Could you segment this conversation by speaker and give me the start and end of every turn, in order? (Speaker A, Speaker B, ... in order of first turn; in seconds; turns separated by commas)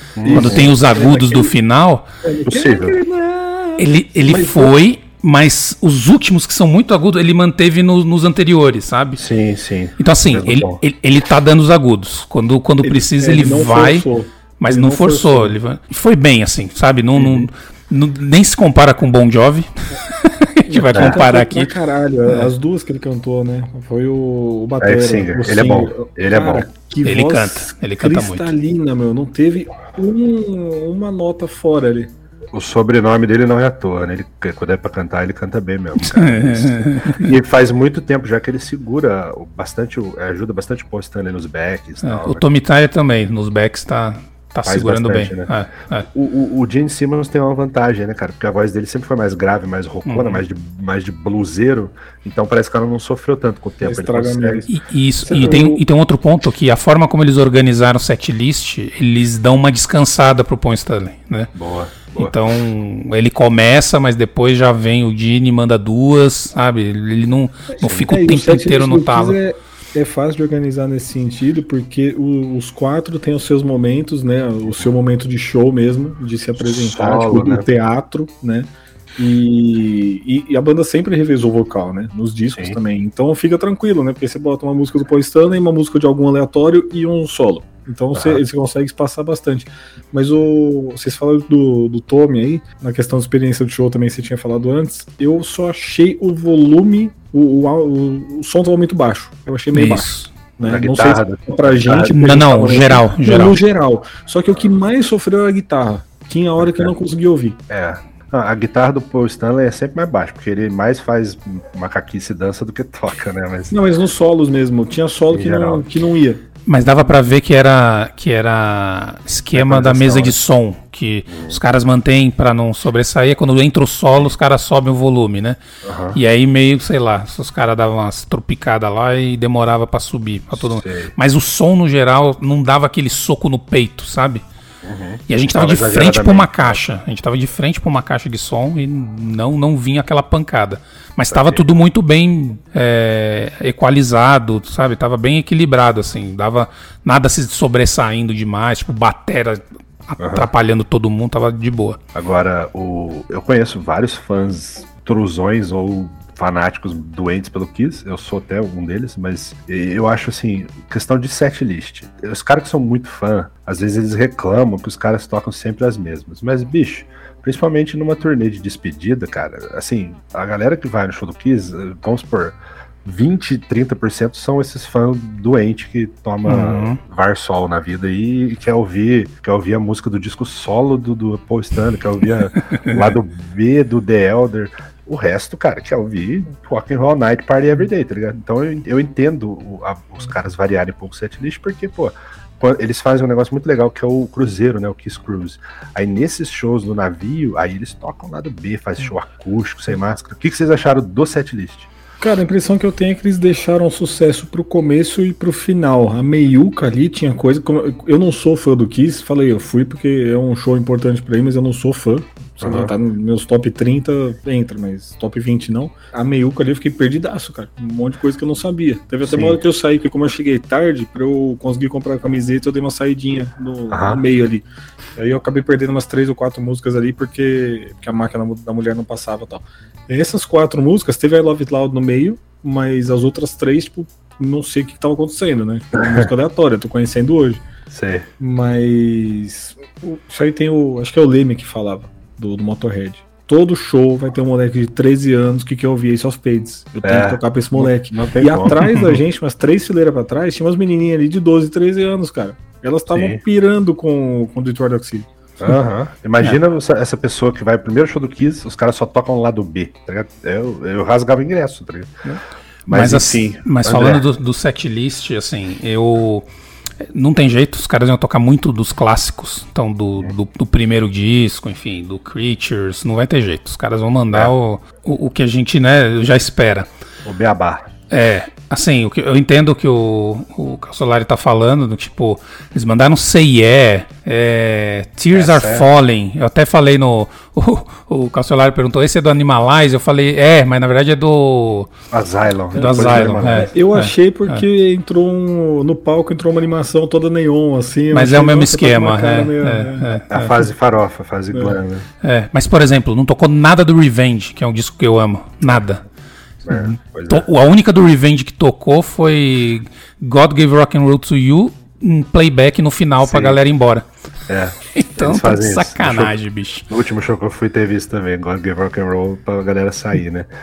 Speaker A: 0.2-0.7, Speaker B: 0.2-1.5, Speaker C: 0.3-2.0, Speaker B: 2.2-4.7, Speaker A: 2.5-3.0, Speaker C: 3.8-9.2, Speaker A: 9.2-10.8, Speaker C: 10.0-14.0, Speaker B: 12.8-15.5, Speaker C: 14.6-21.7, Speaker A: 17.1-17.5, Speaker B: 20.7-32.1, Speaker A: 24.8-26.6, Speaker C: 27.0-28.5, Speaker A: 32.5-42.4, Speaker C: 36.0-37.2, Speaker C: 42.0-46.1, Speaker A: 44.6-45.5, Speaker A: 46.1-54.6, Speaker C: 50.0-50.4, Speaker B: 53.8-54.7, Speaker C: 54.7-61.5, Speaker B: 55.2-55.8, Speaker A: 61.5-62.4, Speaker C: 62.1-69.4, Speaker B: 67.8-107.6, Speaker A: 76.6-77.7, Speaker A: 88.1-88.4, Speaker C: 99.7-100.3, Speaker A: 100.6-102.1, Speaker C: 102.1-103.6, Speaker A: 106.6-106.9, Speaker A: 107.7-113.7, Speaker B: 113.7-116.4, Speaker A: 115.3-115.8, Speaker C: 116.7-125.6, Speaker A: 119.5-120.4, Speaker A: 121.3-121.6, Speaker A: 125.8-126.2, Speaker C: 126.1-134.4, Speaker A: 130.5-131.1, Speaker A: 134.8-136.8, Speaker C: 135.3-152.0, Speaker A: 141.3-141.6, Speaker A: 150.2-150.5, Speaker A: 152.1-201.9, Speaker C: 176.4-177.0, Speaker B: 202.2-224.7, Speaker A: 212.6-212.9, Speaker A: 219.2-219.6, Speaker A: 223.9-224.2, Speaker B: 225.2-237.6, Speaker A: 235.9-236.3, Speaker A: 237.9-238.3, Speaker B: 238.4-255.3, Speaker A: 247.0-248.8, Speaker C: 248.8-249.2, Speaker A: 253.1-253.4, Speaker A: 255.6-262.1, Speaker A: 262.9-264.2, Speaker C: 262.9-266.4, Speaker C: 267.1-276.9, Speaker A: 277.2-277.9, Speaker C: 278.1-291.9, Speaker A: 285.3-285.9, Speaker A: 292.1-293.7, Speaker C: 292.7-294.6, Speaker B: 292.8-300.2, Speaker C: 298.1-300.5, Speaker A: 300.3-302.1, Speaker C: 302.2-306.0, Speaker A: 306.6-307.4, Speaker C: 306.7-314.0, Speaker A: 313.2-313.6, Speaker A: 314.5-316.4, Speaker C: 314.9-316.9, Speaker A: 316.9-320.5